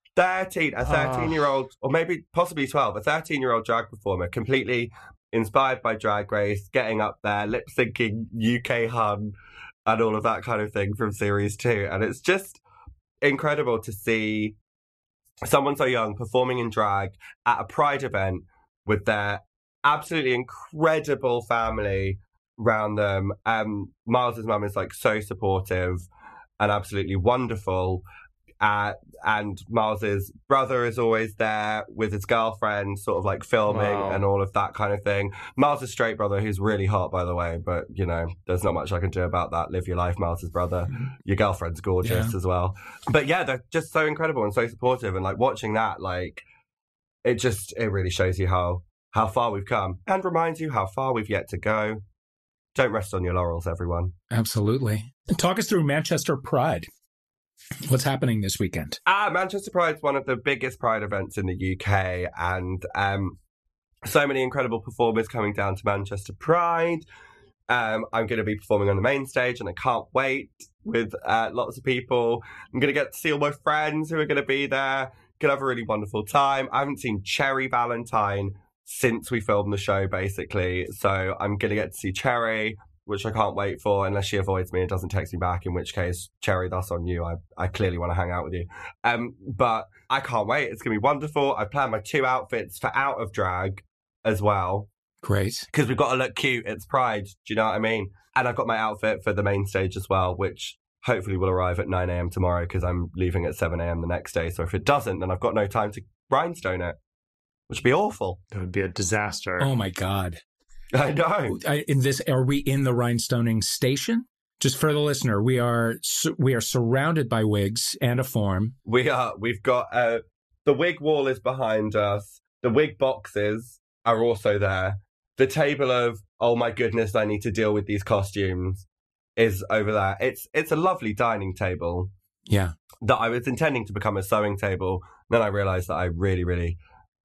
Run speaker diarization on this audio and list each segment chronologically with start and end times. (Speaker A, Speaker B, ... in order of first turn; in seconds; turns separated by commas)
Speaker A: 0.1-9.3, Speaker B: 0.8-1.4, Speaker A: 9.8-12.6, Speaker A: 13.2-14.6, Speaker A: 15.5-26.1, Speaker A: 26.6-28.0, Speaker A: 28.6-46.4, Speaker B: 33.7-34.2, Speaker C: 42.0-42.3, Speaker A: 47.2-52.0, Speaker A: 52.7-54.1, Speaker C: 54.3-56.9, Speaker C: 57.9-59.0, Speaker A: 59.0-63.4, Speaker A: 64.0-67.0, Speaker A: 67.7-94.9, Speaker C: 95.2-95.7, Speaker A: 95.7-107.0, Speaker A: 107.7-108.4, Speaker B: 108.5-109.7, Speaker C: 109.6-110.4, Speaker A: 110.9-111.6, Speaker C: 111.5-118.7, Speaker A: 118.8-128.8, Speaker A: 129.4-132.1, Speaker C: 132.5-132.7, Speaker A: 133.0-136.8